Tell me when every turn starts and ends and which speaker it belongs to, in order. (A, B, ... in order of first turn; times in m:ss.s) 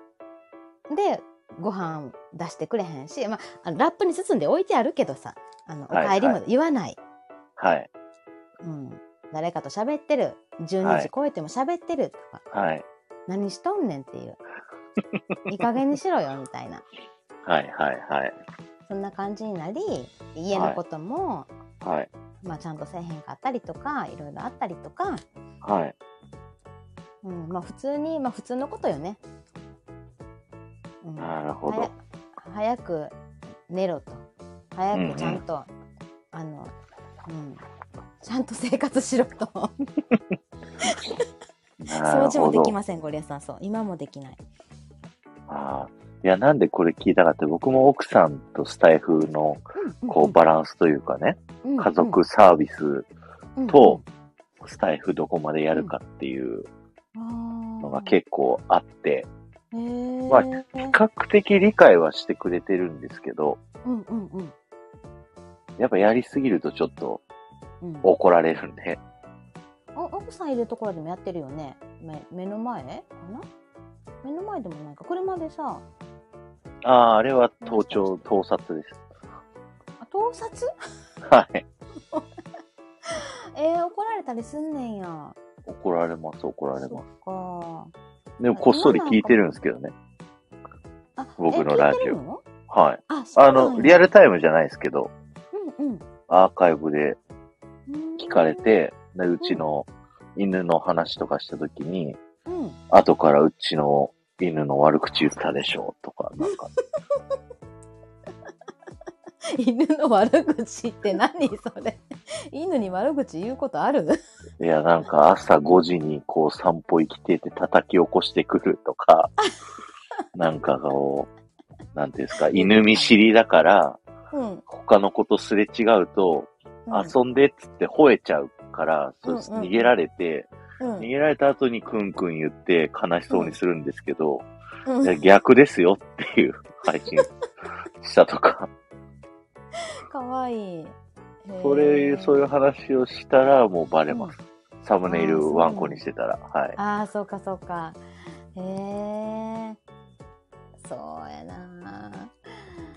0:00.9-0:07.0 A
0:05.9-0:06.4 B
0:07.6-0:07.9 B
0:08.6-0:12.4 A
0:10.8-0:11.1 B
0:12.5-0:12.8 B
0:13.3-0:14.4 A
0:15.5-0:16.8 A
0:17.4-0:18.3 B
0:18.8-0:21.5 A
0:20.5-0:20.8 B
0:21.8-0:22.1 B
0:22.4-0:25.2 A
0:25.6-0:25.9 B
0:27.2-0:29.2 A
0:31.0-0:33.1 A
0:31.2-0:31.9 B
0:33.7-0:35.7 A
0:34.9-0:35.4 B
0:36.3-0:36.7 A
0:37.2-0:37.6 A
0:38.2-0:39.7 A
0:40.8-0:41.2 A
0:41.8-0:42.7 B
0:41.9-0:44.4 A
0:45.5-0:53.1 B
0:49.8-0:50.4 A
0:51.6-0:52.2 A
0:53.6-0:54.0 A
0:53.7-0:54.0 B
0:54.6-0:56.7 B
0:57.1-0:58.2 A
0:57.8-0:59.3 B
0:59.7-1:01.0 A
1:00.3-1:03.6 B
1:03.8-1:04.5 A
1:05.8-1:07.2 B
1:07.8-1:08.1 A
1:08.0-1:09.0 B
1:09.9-1:13.4 A
1:14.2-1:15.8 A
1:16.8-1:19.0 B
1:17.6-1:18.3 A
1:20.0-1:20.7 A
1:21.2-1:21.6 B
1:23.0-1:25.4 A
1:25.6-1:27.0 B
1:26.8-1:27.9 A
1:28.4-1:29.9 B
1:28.5-1:29.5 A
1:31.2-1:32.4 A
1:31.4-1:32.2 B
1:32.7-1:35.1 B
1:33.1-1:34.0 A
1:35.5-1:36.0 A
1:36.3-1:37.2 B
1:37.9-1:38.8 A
1:38.2-1:42.2 B
1:42.5-1:42.8 A
1:42.9-1:46.7 B
1:49.6-1:54.2 A
1:54.6-1:59.3 B
2:00.3-2:01.3 B
2:01.9-2:04.0 B
2:02.5-2:03.2 A
2:04.3-2:04.6 A
2:04.7-2:14.4 B
2:06.9-2:07.1 A
2:09.2-2:09.9 A
2:10.8-2:11.1 A
2:13.3-2:13.6 A
2:14.8-2:15.2 A
2:15.0-2:17.3 B
2:18.0-2:18.7 B
2:20.1-2:20.9 A
2:21.4-2:22.5 A
2:21.6-2:26.8 B
2:24.1-2:24.3 A
2:25.1-2:26.0 A
2:26.8-2:28.0 A
2:28.5-2:29.8 A
2:30.8-2:32.3 A